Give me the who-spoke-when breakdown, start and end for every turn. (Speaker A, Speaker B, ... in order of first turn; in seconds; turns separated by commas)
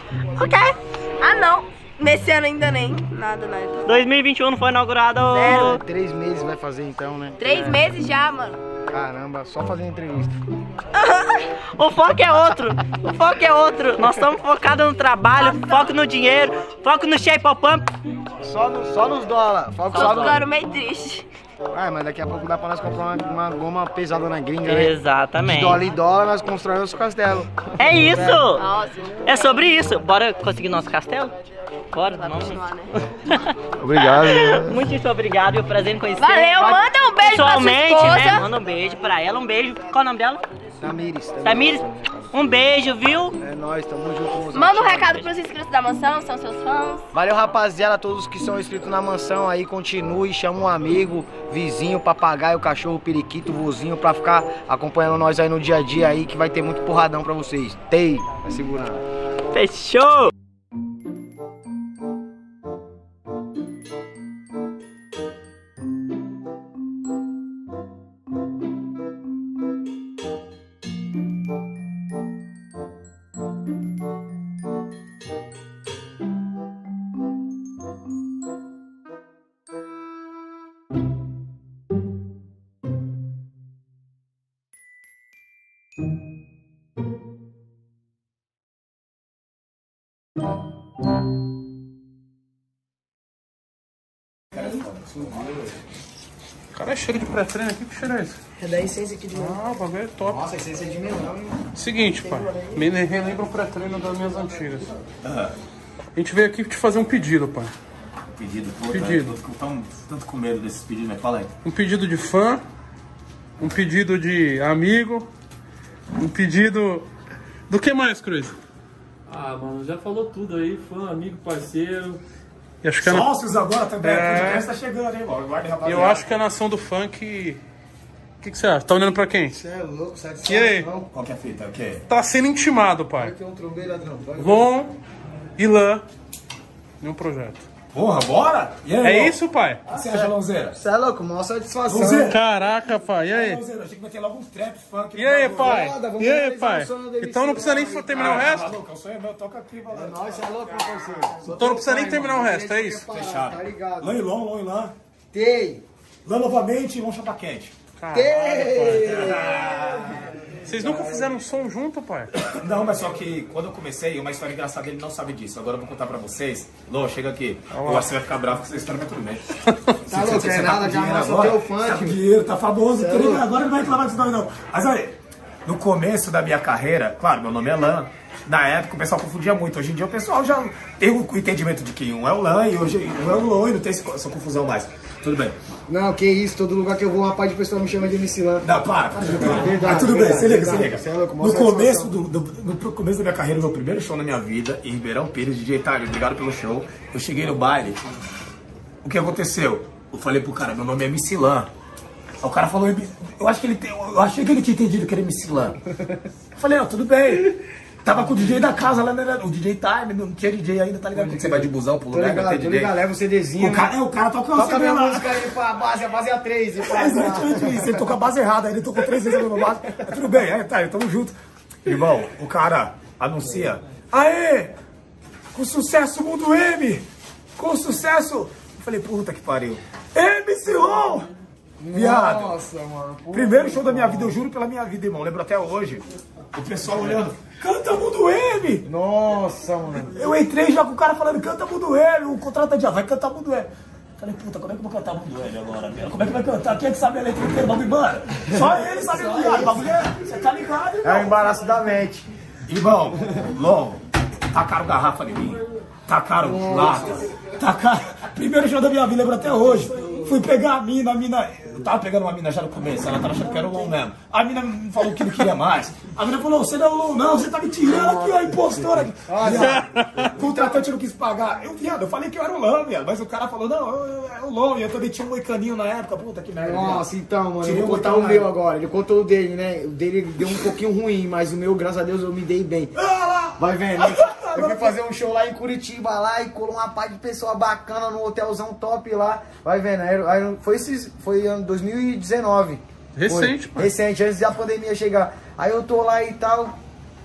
Speaker A: 0.4-3.9, Speaker B: 3.9-5.8, Speaker A: 5.3-5.8, Speaker C: 5.5-7.7, Speaker A: 7.4-8.6, Speaker C: 8.9-10.4, Speaker A: 10.9-11.5, Speaker B: 11.7-17.9, Speaker A: 15.5-15.9, Speaker C: 18.4-20.4, Speaker A: 19.9-21.3, Speaker B: 19.9-20.4, Speaker C: 21.7-28.4, Speaker B: 24.6-25.8, Speaker B: 27.8-28.6, Speaker A: 28.5-29.7, Speaker B: 29.2-31.3, Speaker B: 31.9-32.6, Speaker A: 32.2-32.9, Speaker C: 33.8-34.8, Speaker B: 34.0-40.4, Speaker A: 36.2-38.5, Speaker C: 40.8-42.5, Speaker B: 41.4-43.4, Speaker C: 43.4-45.3, Speaker A: 44.5-47.0, Speaker C: 47.1-59.0, Speaker B: 59.5-60.3, Speaker D: 94.5-95.5, Speaker E: 96.7-98.4, Speaker C: 98.6-99.6, Speaker E: 99.3-100.5, Speaker C: 100.2-102.7, Speaker E: 101.8-104.9, Speaker D: 105.2-105.5, Speaker E: 106.2-107.7, Speaker D: 108.4-111.5, Speaker E: 108.9-109.3, Speaker E: 111.7-112.6, Speaker E: 113.6-115.3, Speaker E: 116.2-117.1, Speaker E: 117.7-118.6, Speaker F: 119.3-122.2, Speaker E: 122.8-123.3, Speaker D: 123.0-126.3, Speaker E: 124.0-124.7, Speaker E: 125.8-127.6, Speaker E: 128.4-129.6, Speaker C: 129.5-131.1, Speaker E: 130.4-130.9, Speaker D: 131.1-132.1, Speaker E: 132.1-133.3, Speaker C: 133.2-134.9, Speaker E: 134.4-134.9, Speaker E: 135.6-136.0, Speaker E: 137.0-137.6, Speaker D: 137.9-140.8, Speaker E: 139.0-139.8, Speaker C: 139.9-142.4, Speaker D: 141.8-145.9, Speaker E: 142.2-143.6, Speaker E: 145.2-148.7, Speaker C: 145.5-148.5, Speaker D: 148.1-150.9, Speaker C: 149.9-154.2, Speaker E: 151.5-153.1, Speaker D: 153.1-154.9, Speaker C: 155.3-155.8, Speaker D: 156.2-157.8, Speaker E: 158.0-159.4, Speaker C: 158.1-159.6, Speaker D: 158.9-160.3, Speaker E: 160.7-162.3, Speaker D: 162.4-185.6, Speaker E: 167.7-168.1, Speaker C: 170.1-172.2, Speaker C: 172.9-173.5, Speaker C: 185.9-192.2, Speaker D: 188.6-198.0, Speaker D: 199.0-201.7, Speaker D: 202.4-205.8, Speaker D: 206.6-213.0, Speaker C: 211.2-213.9, Speaker D: 213.6-215.5, Speaker C: 214.5-218.1, Speaker D: 216.8-224.8, Speaker D: 225.5-227.1, Speaker D: 227.6-231.3, Speaker C: 231.8-234.4, Speaker D: 231.9-232.6, Speaker D: 233.3-238.9, Speaker C: 238.8-240.2, Speaker D: 240.1-251.5, Speaker C: 249.1-249.8, Speaker C: 251.0-252.3, Speaker D: 252.7-277.1, Speaker C: 256.4-257.2, Speaker C: 269.3-270.9, Speaker E: 269.5-270.3, Speaker C: 276.6-282.9, Speaker D: 277.6-278.5, Speaker D: 283.0-285.0, Speaker C: 283.6-296.8, Speaker E: 293.2-293.9